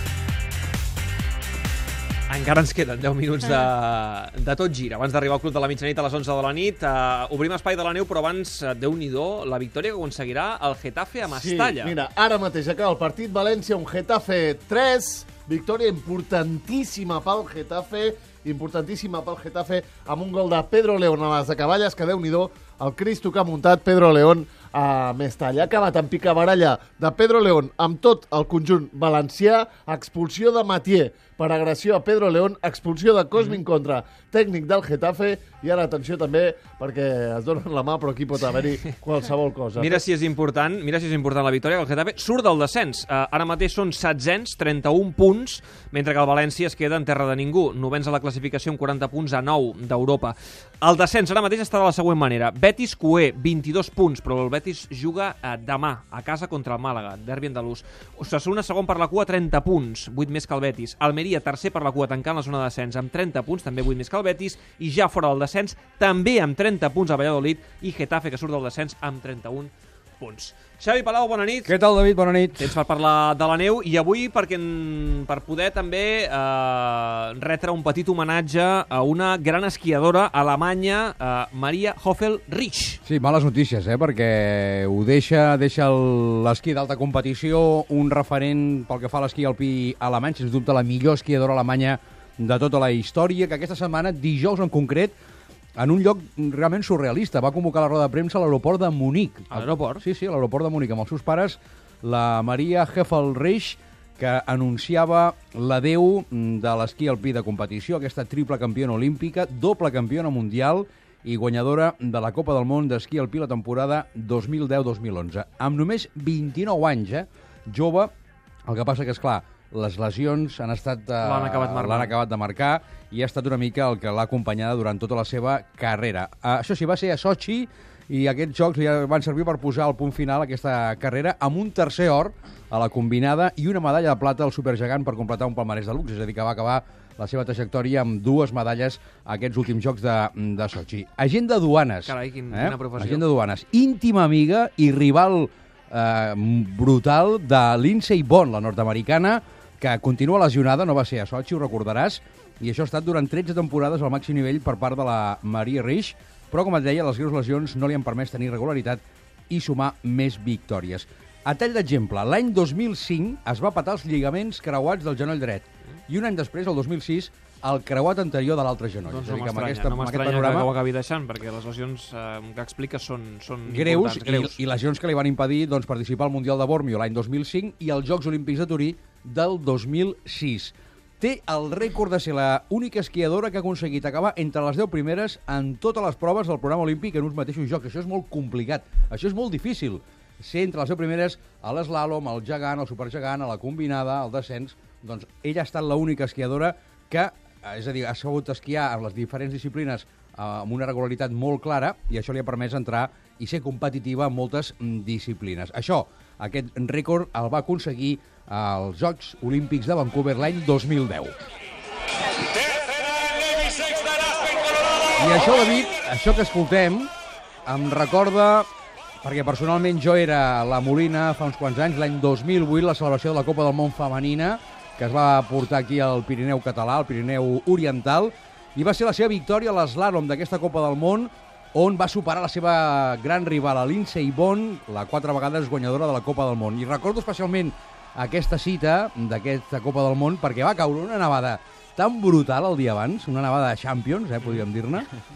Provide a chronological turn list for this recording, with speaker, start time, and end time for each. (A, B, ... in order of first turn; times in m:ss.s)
0:02.3-0:12.0 A
0:11.3-0:40.0 B
0:33.4-0:33.6 A
0:39.8-1:11.7 A
1:11.6-1:12.8 C
1:12.6-1:23.0 A
1:23.0-1:35.1 C
1:35.8-1:58.1 C
1:39.5-1:40.0 A
1:58.7-2:50.7 C
2:01.2-2:02.1 A
2:22.0-2:23.2 A
2:49.0-2:54.6 A
2:53.7-3:31.3 C
3:35.2-3:37.1 C
3:37.7-3:38.7 C
3:39.2-4:05.1 C